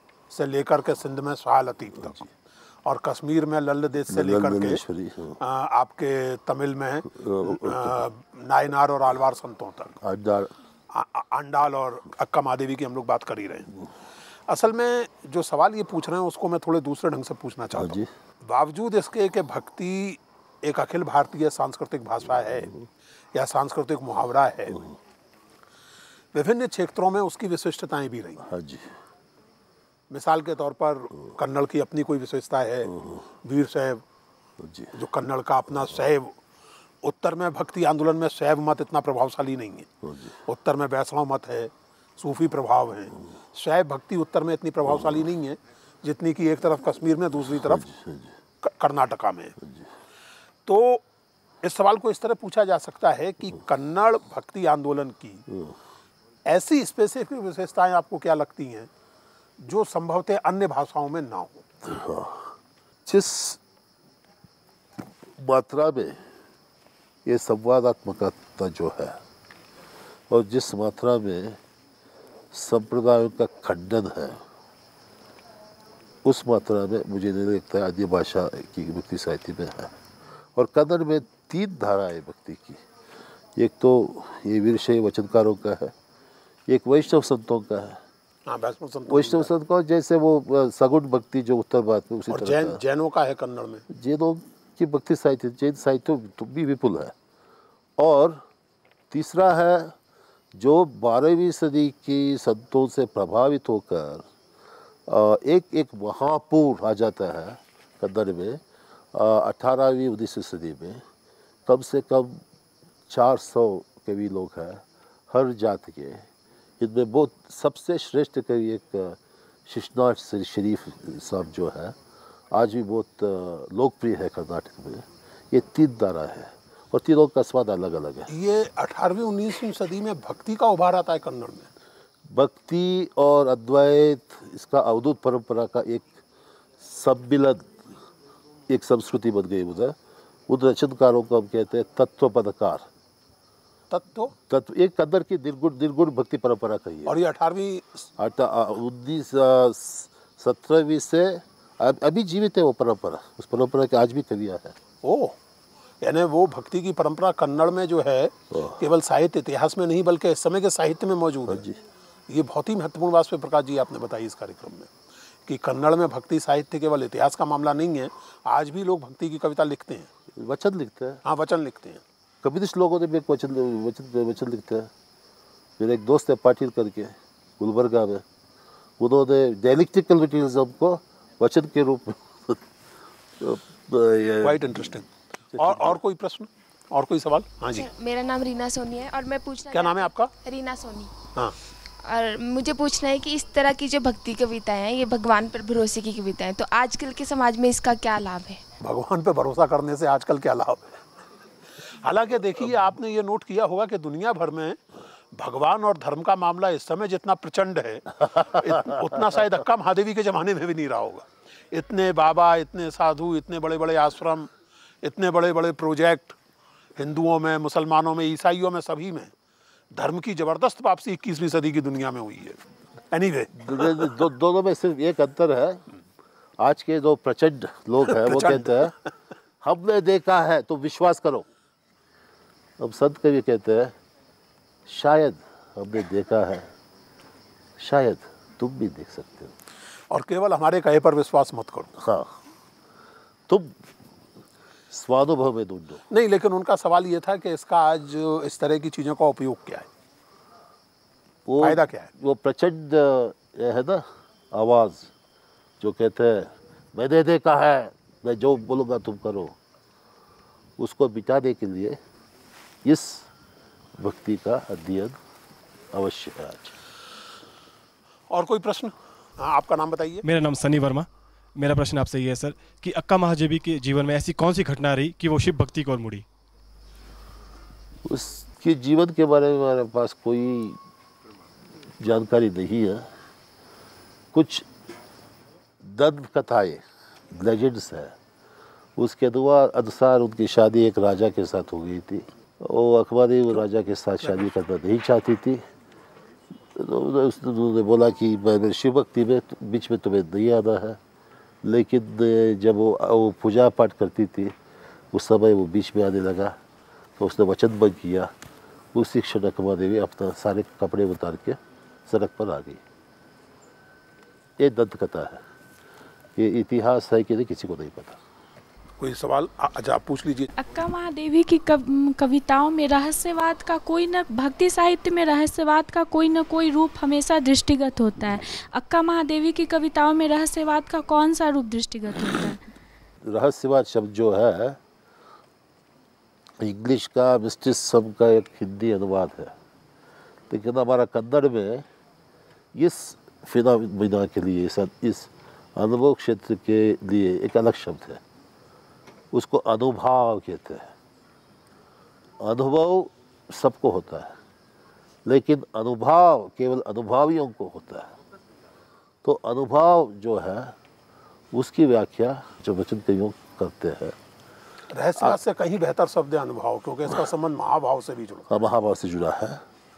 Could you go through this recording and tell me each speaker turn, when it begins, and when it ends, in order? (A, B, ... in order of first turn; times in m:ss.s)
0:00.3-0:02.2 A
0:02.8-0:04.8 A
0:04.1-0:05.4 B
0:05.4-0:10.0 A
0:07.1-0:08.0 B
0:10.0-0:10.5 B
0:10.9-0:13.7 A
0:14.5-0:22.7 A
0:17.7-0:18.1 B
0:22.4-0:22.9 B
0:23.3-0:24.8 A
0:26.3-0:28.5 A
0:28.4-0:28.9 B
0:30.1-0:32.9 A
0:32.9-0:33.2 B
0:33.4-0:34.0 A
0:34.6-0:34.9 B
0:34.9-0:36.4 A
0:37.0-0:39.9 A
0:40.0-0:40.3 B
0:40.4-0:47.8 A
0:44.9-0:45.2 B
0:47.6-0:48.3 B
0:48.6-0:49.6 A
0:49.6-0:49.9 B
0:50.6-0:51.0 A
0:51.6-0:55.4 A
0:55.5-0:55.7 B
0:56.5-0:58.9 A
0:59.6-1:01.6 A
1:01.8-1:02.5 B
1:03.0-1:03.6 B
1:05.4-1:06.2 B
1:07.2-1:09.2 B
1:10.3-1:11.6 B
1:12.5-1:14.4 B
1:16.2-1:19.9 B
1:20.5-1:22.8 B
1:23.6-1:25.9 B
1:26.7-1:28.0 B
1:28.5-1:29.5 A
1:29.1-1:32.8 B
1:32.3-1:33.8 A
1:33.9-1:37.1 B
1:38.0-1:38.4 B
1:39.1-1:39.9 B
1:40.5-1:44.3 B
1:45.1-1:48.6 B
1:49.1-1:51.0 B
1:51.6-1:52.4 B
1:53.1-1:56.2 B
1:56.8-2:02.0 B
2:02.5-2:08.3 B
2:08.3-2:11.7 A
2:12.3-2:16.2 B
2:16.8-2:17.7 B
2:18.7-2:20.0 B
2:20.5-2:22.8 B
2:23.9-2:24.3 A
2:24.5-2:27.2 B
2:27.0-2:28.1 A
2:28.2-2:34.8 B
2:35.0-2:35.4 A
2:36.0-2:41.6 A
2:38.5-2:38.8 B
2:41.5-2:41.8 B
2:42.3-2:44.9 A
2:45.4-2:50.1 A
2:50.4-2:51.2 B
2:51.2-2:52.0 A
2:52.4-2:54.9 B
2:55.8-2:58.2 B
2:59.0-3:02.6 B
3:03.4-3:04.9 B
3:04.4-3:07.9 A
3:05.5-3:06.0 B
3:07.7-3:11.1 C
3:09.7-3:10.3 A
3:12.1-3:18.6 C
3:18.8-3:21.0 A
3:22.0-3:24.8 A
3:25.3-3:34.5 A
3:35.0-3:36.4 A
3:37.0-3:39.3 A
3:39.9-3:42.6 A
3:43.1-3:44.2 A
3:43.5-3:45.8 B
3:46.6-3:48.9 B
3:48.1-3:48.9 A
3:49.6-3:51.5 B
3:52.8-3:53.9 B
3:54.9-3:56.7 B
3:57.8-3:59.6 B
4:00.1-4:01.9 A
4:02.0-4:02.3 B
4:03.5-4:03.8 B
4:04.9-4:06.0 B
4:06.1-4:09.9 A
4:11.4-4:15.1 B
4:11.6-4:12.1 A
4:15.8-4:19.6 B
4:20.8-4:22.0 B
4:22.8-4:23.3 B
4:24.0-4:25.2 B
4:25.9-4:26.8 B
4:28.3-4:30.2 A
4:30.2-4:36.2 D
4:38.0-4:40.8 B
4:42.0-4:43.1 B
4:44.3-4:44.7 B
4:45.8-4:48.1 B
4:49.0-4:55.6 B
4:54.2-4:54.5 A
4:56.7-5:01.0 B
5:01.6-5:04.6 B
5:05.1-5:06.6 B
5:07.2-5:08.3 B
5:08.9-5:12.8 B
5:14.6-5:15.4 B
5:16.4-5:18.2 B
5:19.0-5:20.5 A
5:20.6-5:32.6 E
5:33.2-5:34.8 B
5:36.6-5:39.5 B
5:40.5-5:41.8 B
5:42.7-5:48.2 B
5:49.3-5:50.9 B
5:52.4-5:54.4 B
5:55.2-5:58.2 B
5:59.2-6:00.8 B
6:01.5-6:04.2 B
6:04.9-6:08.5 A
6:08.5-6:09.6 B